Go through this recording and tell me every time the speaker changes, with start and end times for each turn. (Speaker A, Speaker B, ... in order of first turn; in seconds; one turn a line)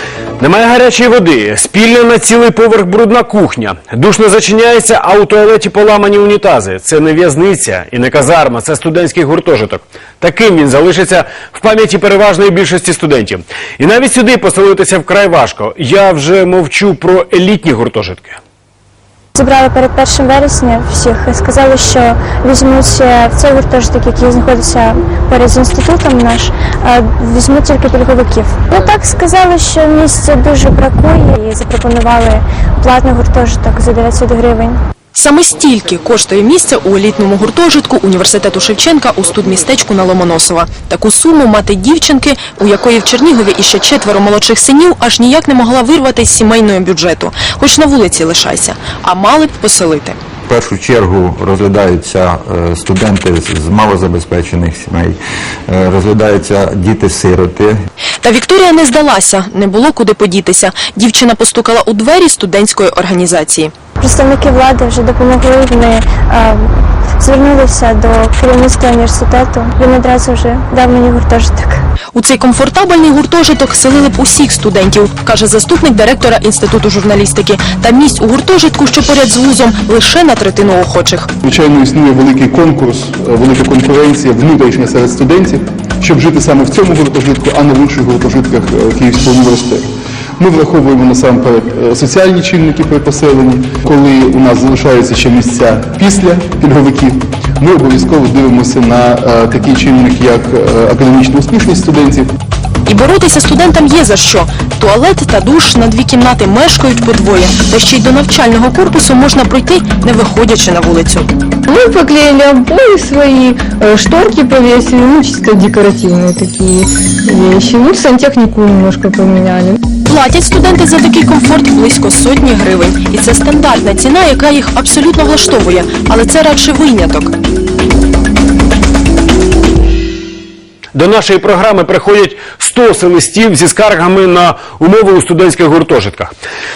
Speaker A: 0.4-18.4
Speaker B: 19.4-34.8
Speaker C: 35.1-50.2
Speaker D: 50.5-55.2
Speaker D: 55.7-57.7
Speaker C: 58.2-63.7
Speaker B: 64.0-71.8
Speaker C: 72.2-81.3
Speaker E: 81.4-89.9
Speaker E: 90.4-102.3
Speaker C: 102.9-111.3
Speaker F: 111.7-119.8
Speaker C: 120.1-127.3
Speaker A: 130.9-136.3